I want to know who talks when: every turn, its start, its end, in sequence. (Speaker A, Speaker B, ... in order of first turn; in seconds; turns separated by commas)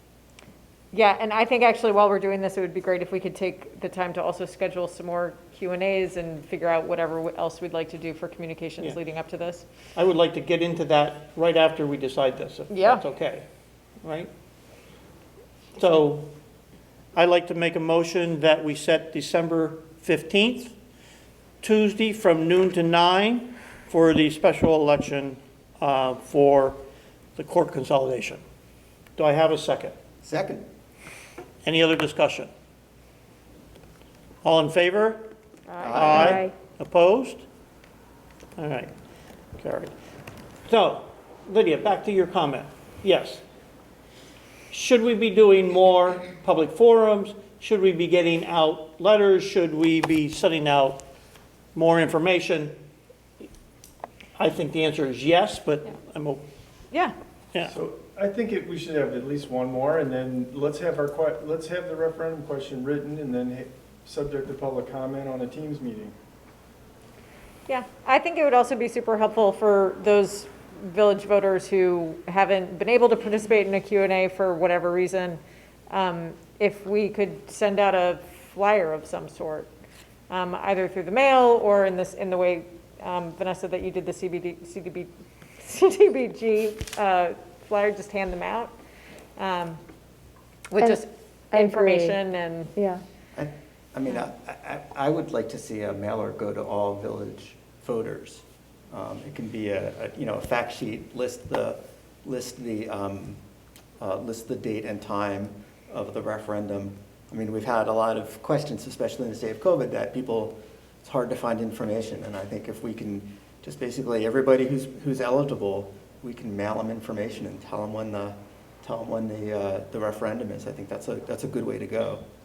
Speaker A: 0.9-9.7, Speaker B: 9.9-13.4, Speaker A: 12.7-13.0, Speaker B: 14.0-14.3, Speaker B: 15.8-16.3, Speaker B: 17.1-20.7, Speaker B: 21.6-26.8, Speaker B: 27.4-28.4, Speaker B: 29.2-29.9, Speaker C: 30.2-30.7, Speaker B: 31.6-32.5, Speaker B: 34.4-35.3, Speaker A: 35.7-36.0, Speaker C: 35.8-36.5, Speaker B: 35.9-37.4, Speaker D: 36.0-36.5, Speaker B: 38.6-38.9, Speaker B: 39.6-39.9, Speaker B: 40.7-43.4, Speaker B: 44.7-51.0, Speaker B: 51.8-52.8, Speaker B: 54.4-56.4, Speaker E: 57.6-66.1, Speaker A: 67.7-79.7, Speaker A: 80.3-88.7, Speaker A: 89.3-89.8, Speaker A: 90.7-92.7, Speaker D: 90.8-92.2, Speaker D: 92.8-93.0, Speaker C: 93.3-103.4, Speaker C: 104.0-122.2